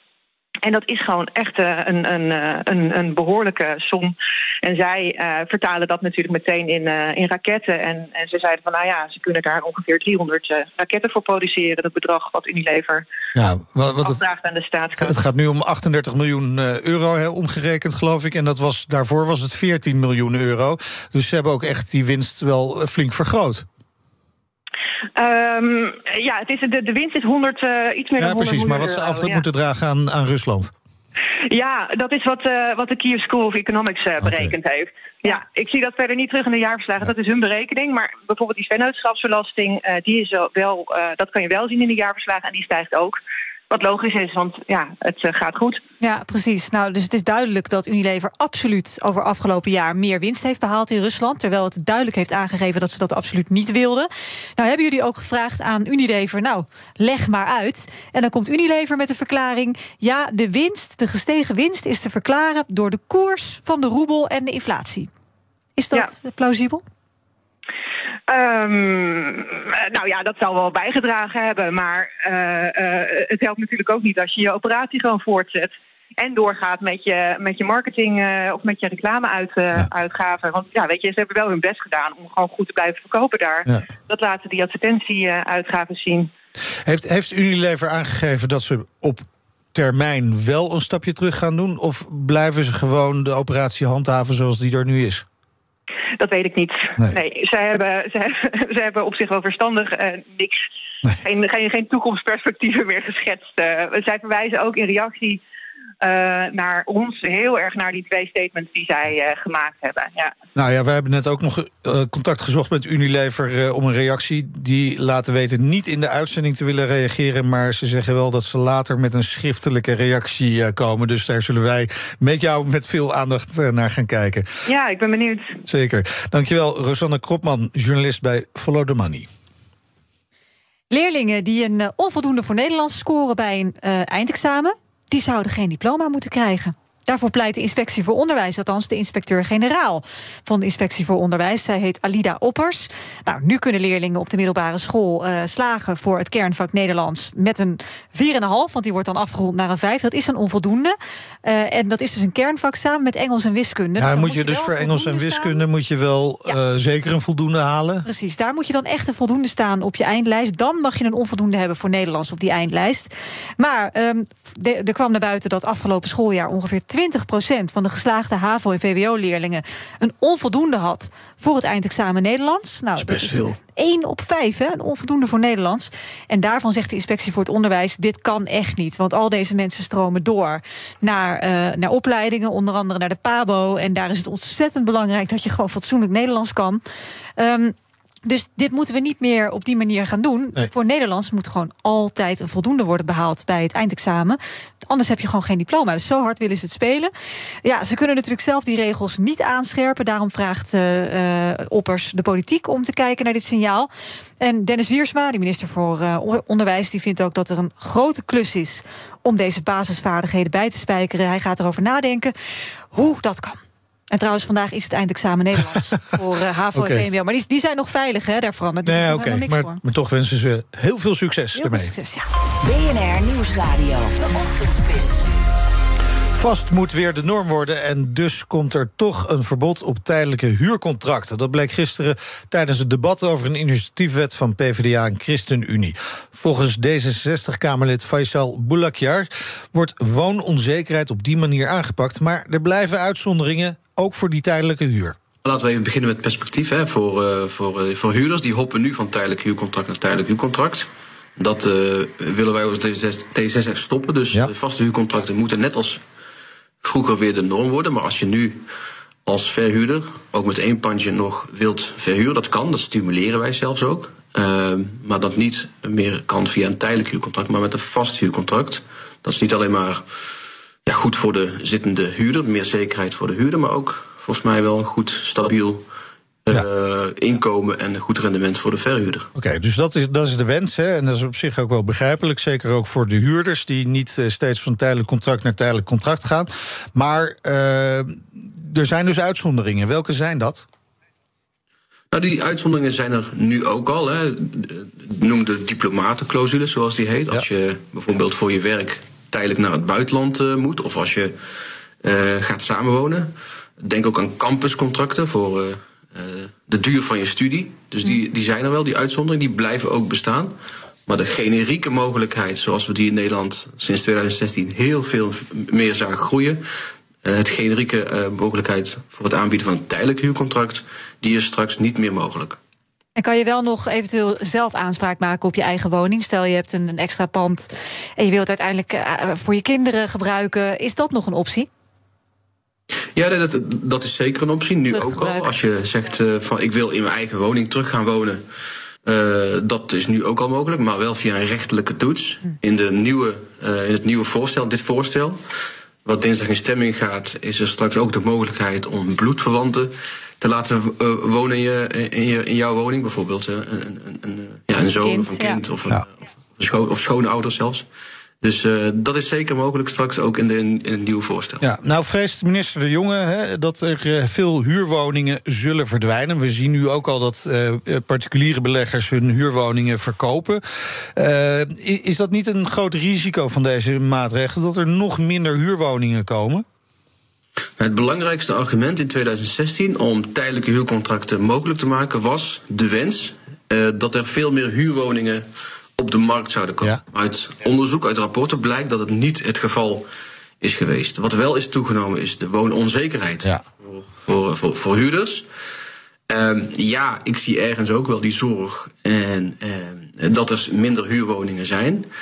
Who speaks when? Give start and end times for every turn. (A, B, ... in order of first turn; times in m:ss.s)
0:00.6-0:13.0 A
0:13.3-0:14.2 B
0:14.0-0:15.2 A
0:15.0-0:23.6 B
0:25.2-0:29.4 A
0:28.2-0:30.7 B
0:31.5-0:43.2 A
0:34.2-0:34.6 B
0:43.7-0:45.8 A
0:46.0-1:05.1 C
1:05.8-1:06.8 C
1:08.3-1:26.3 A
1:26.8-1:35.2 B
1:36.2-1:40.6 A
1:41.2-1:45.4 A
1:46.0-1:50.3 A
1:50.6-2:04.4 B
2:04.7-2:05.6 A
2:05.7-2:09.3 B
2:10.9-2:35.6 C
2:34.0-2:38.0 B
2:38.0-3:06.8 C
2:53.0-2:53.6 B
3:07.4-3:07.7 C
3:08.2-3:17.1 C
3:17.6-3:23.9 C
3:24.4-3:32.3 C
3:32.9-3:33.6 C
3:34.1-3:39.8 C
3:36.7-3:37.0 B
3:38.8-3:41.9 B
3:41.5-3:42.3 C
3:42.6-3:45.3 D
3:46.3-4:05.2 B
4:05.4-4:16.0 E
4:16.8-4:18.6 E
4:19.2-4:30.0 E
4:30.8-4:35.8 E
4:36.4-4:39.3 E
4:39.3-4:50.6 B
4:52.1-5:01.3 E
5:02.0-5:10.5 E
5:11.1-5:16.6 E
5:17.2-5:22.6 E
5:23.2-5:31.7 C
5:33.2-5:38.4 E
5:34.9-5:35.6 C
5:39.0-5:45.4 E
5:46.0-5:57.8 E
5:55.0-5:55.6 C
5:58.4-6:01.7 E
6:01.6-6:10.6 B
6:11.2-6:16.6 B
6:17.8-6:25.4 E
6:26.0-6:30.0 E
6:30.6-6:35.4 E
6:36.3-6:42.0 E